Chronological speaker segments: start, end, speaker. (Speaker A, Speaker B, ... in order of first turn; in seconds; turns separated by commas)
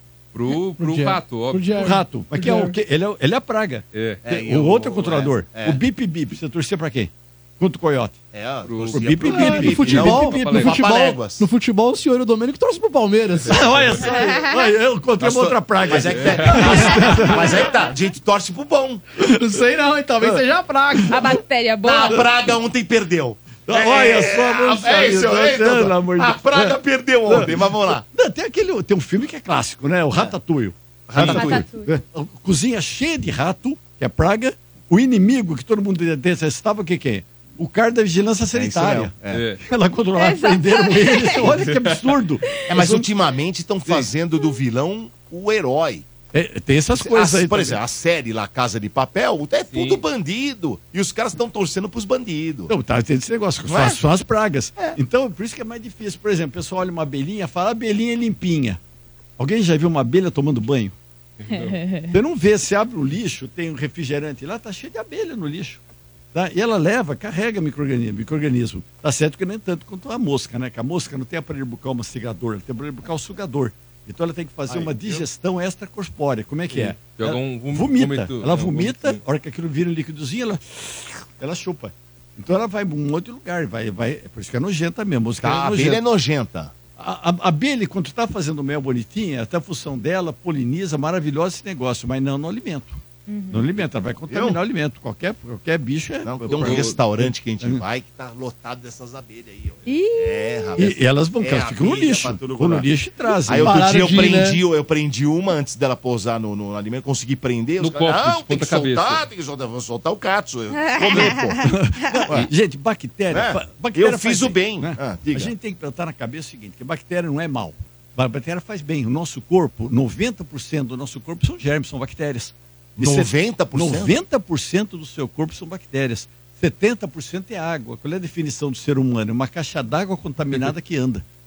Speaker A: 0.3-1.9, Speaker B: 0.8-2.8, Speaker C: 1.8-8.2, Speaker A: 3.9-4.2, Speaker D: 4.2-5.8, Speaker D: 8.3-11.5, Speaker A: 8.6-10.8, Speaker C: 8.9-10.2, Speaker B: 9.2-13.6, Speaker C: 13.5-17.7, Speaker E: 14.1-14.5, Speaker D: 15.2-19.1, Speaker A: 16.0-16.9, Speaker B: 19.2-21.3, Speaker E: 21.1-22.2, Speaker D: 21.8-28.0, Speaker C: 23.7-43.1, Speaker D: 31.1-31.7, Speaker E: 31.2-31.9, Speaker D: 38.5-39.5, Speaker A: 39.3-39.6, Speaker E: 40.1-41.5, Speaker A: 41.5-42.0, Speaker D: 42.6-46.1, Speaker C: 46.3-47.8, Speaker D: 46.9-52.7, Speaker A: 49.7-50.0, Speaker C: 52.7-58.8, Speaker D: 53.7-54.0, Speaker C: 59.4-60.9, Speaker A: 61.4-61.8, Speaker E: 61.5-62.2, Speaker C: 62.1-65.8, Speaker C: 66.3-86.0, Speaker D: 74.7-75.3, Speaker A: 76.7-79.2, Speaker D: 85.4-86.7, Speaker C: 87.0-93.0, Speaker E: 93.3-93.8, Speaker C: 93.5-97.8, Speaker D: 94.3-94.6, Speaker D: 96.2-102.9, Speaker A: 96.5-96.9, Speaker E: 99.9-100.8, Speaker C: 100.8-104.3, Speaker D: 103.4-111.7, Speaker B: 103.5-104.6, Speaker A: 107.8-109.2, Speaker E: 110.8-112.2, Speaker C: 111.6-131.2, Speaker D: 113.3-115.5, Speaker D: 123.0-124.2